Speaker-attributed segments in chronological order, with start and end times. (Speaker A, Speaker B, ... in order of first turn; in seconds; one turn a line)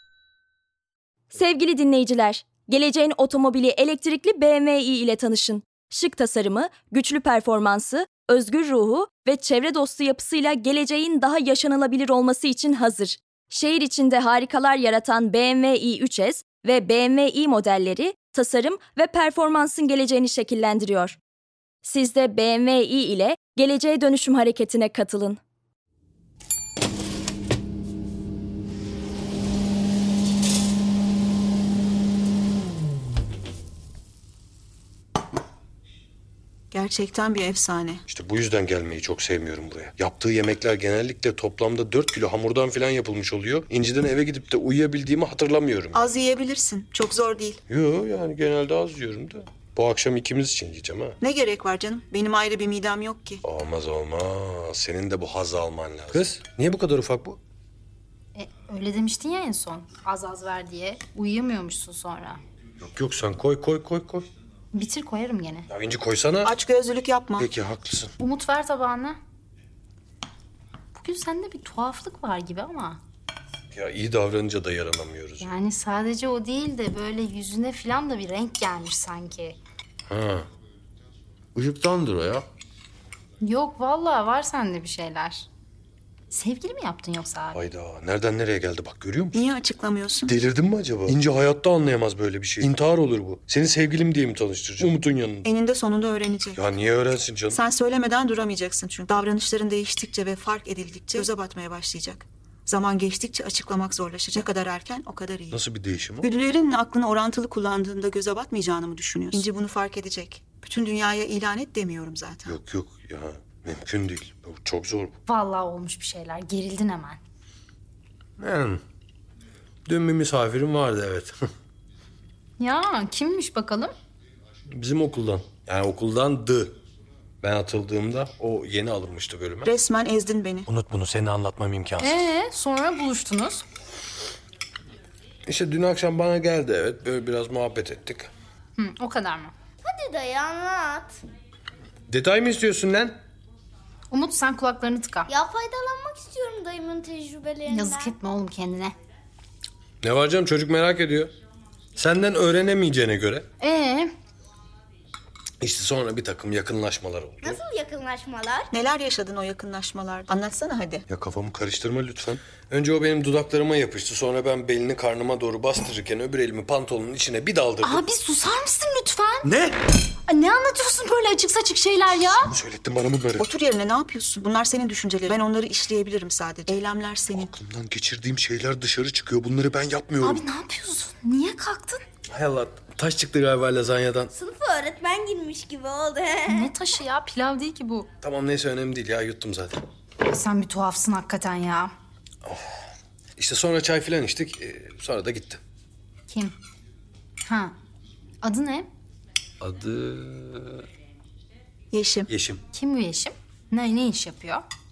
Speaker A: 1.3-21.2
Speaker A: 21.8-25.4
Speaker B: 36.7-38.0
Speaker C: 38.1-46.1
Speaker B: 45.9-47.6
Speaker C: 47.7-51.2
Speaker B: 51.2-53.4
Speaker C: 53.4-57.4
Speaker D: 58.3-62.4
Speaker C: 62.8-64.2
Speaker D: 64.7-65.7
Speaker C: 65.7-66.5
Speaker B: 66.4-67.5
Speaker C: 67.4-68.1
Speaker D: 68.2-69.2
Speaker D: 70.9-73.0
Speaker C: 73.7-75.5
Speaker D: 75.4-79.6
Speaker C: 80.1-80.5
Speaker C: 81.5-82.5
Speaker D: 83.4-85.5
Speaker D: 86.3-87.6
Speaker C: 87.5-89.5
Speaker B: 89.3-90.3
Speaker C: 90.3-95.5
Speaker B: 95.4-96.6
Speaker C: 96.6-97.6
Speaker B: 97.5-105.6
Speaker C: 105.5-106.3
Speaker B: 106.2-112.6
Speaker C: 112.5-115.2
Speaker D: 115.3-117.2
Speaker C: 118.4-118.8
Speaker C: 119.9-121.3
Speaker D: 122.6-123.9
Speaker C: 124.7-126.8
Speaker C: 127.4-129.7
Speaker B: 129.7-130.7
Speaker C: 130.7-132.3
Speaker D: 132.0-133.7
Speaker C: 135.5-138.3
Speaker D: 138.8-139.5
Speaker E: 139.8-141.2
Speaker C: 142.1-143.2
Speaker D: 144.1-145.3
Speaker E: 145.3-148.2
Speaker D: 147.7-148.9
Speaker C: 150.0-151.3
Speaker C: 152.0-153.5
Speaker D: 153.6-154.1
Speaker C: 155.6-157.6
Speaker E: 157.4-158.7
Speaker B: 158.7-161.1
Speaker C: 161.1-168.0
Speaker D: 167.8-169.5
Speaker C: 169.4-169.8
Speaker D: 170.3-172.5
Speaker C: 172.5-173.5
Speaker B: 173.4-177.5
Speaker C: 177.3-180.4
Speaker D: 180.2-182.0
Speaker C: 182.3-184.3
Speaker E: 184.3-186.7
Speaker D: 186.5-188.1
Speaker C: 188.2-189.8
Speaker D: 190.2-191.9
Speaker C: 193.4-195.6
Speaker D: 196.3-196.6
Speaker D: 197.4-197.7
Speaker D: 198.4-198.9
Speaker C: 199.6-200.8
Speaker B: 201.9-202.3
Speaker C: 202.3-202.6
Speaker D: 202.7-204.6